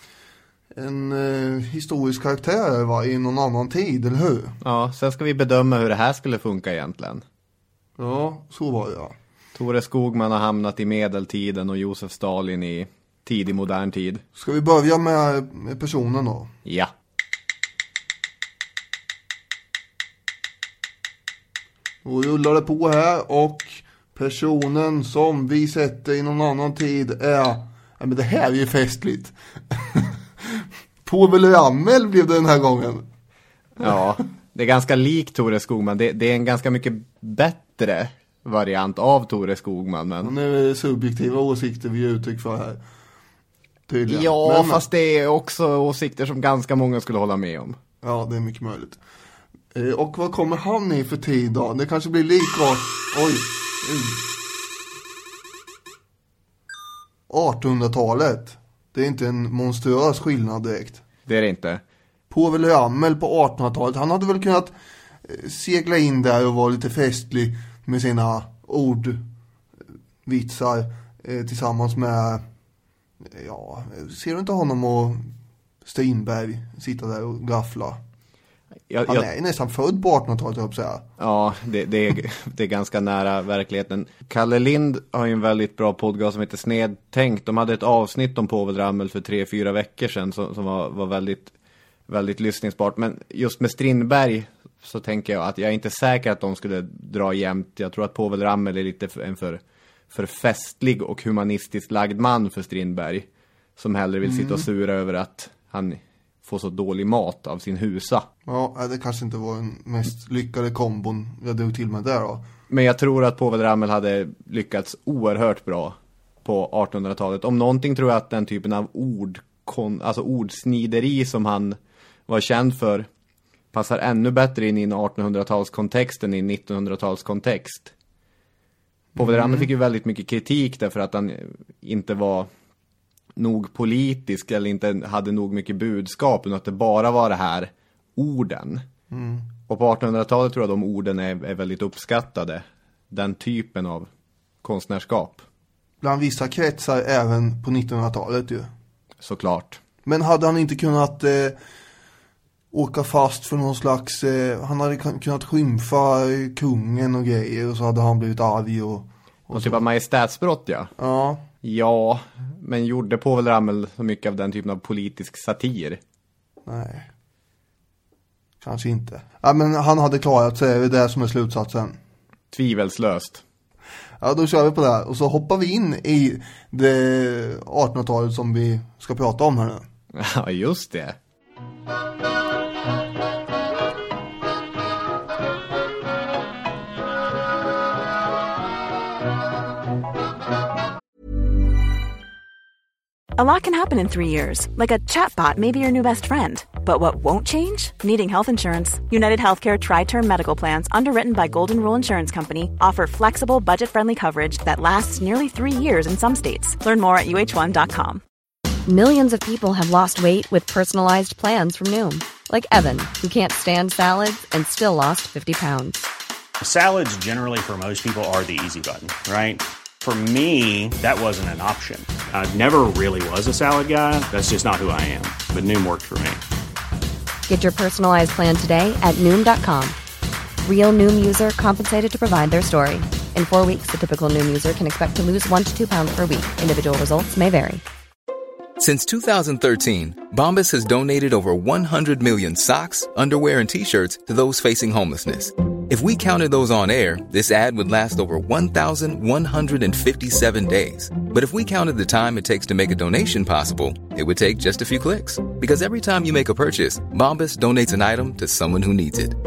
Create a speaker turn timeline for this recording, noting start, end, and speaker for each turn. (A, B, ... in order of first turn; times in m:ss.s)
0:00.8-0:04.6 A
0:04.6-0:07.2 B
0:08.0-0:09.2 A
0:09.5-0:14.2 B
0:14.4-0:16.5 A
0:16.6-0:16.9 B
0:22.0-0:33.0 A
0:33.8-0:40.3 B
0:40.2-0:42.8 A
0:43.9-0:44.8 A
0:44.1-0:47.8 B
0:48.0-0:49.0 A
0:49.7-0:54.2 A
0:57.3-1:01.0 A
1:01.3-1:01.8 B
1:02.3-1:04.7 A
1:05.2-1:09.2 A
1:10.3-1:12.4 A
1:13.2-1:15.3 A
1:15.8-1:18.0 A
1:18.9-1:19.3 B
1:19.1-1:21.0 A
1:21.2-1:31.5 B
1:32.1-1:43.3 B
1:43.8-1:48.3 B
1:44.2-1:44.7 A
1:48.5-1:52.4 A
1:52.7-2:01.8 B
2:02.3-2:03.1 B
2:03.7-2:07.9 B
2:09.2-2:09.7 A
2:09.2-2:12.5 B
2:13.4-2:18.8 B
2:19.1-2:19.5 A
2:19.7-2:24.1 B
2:24.6-2:25.4 B
2:26.0-2:28.7 A
2:29.2-2:29.8 B
2:30.0-2:31.6 A
2:32.7-2:39.8 A
2:39.5-2:40.9 B
2:41.0-2:41.4 A
2:41.6-2:46.0 B
2:46.7-2:47.1 A
2:48.6-2:52.0 A
2:52.5-2:53.4 B
2:54.2-2:59.8 A
3:00.2-3:01.2 B
3:13.4-3:28.2 C
3:28.9-3:36.0 D
3:36.6-3:46.4 E
3:47.5-3:50.0 D
3:50.6-3:57.8 D
3:58.8-4:19.4 F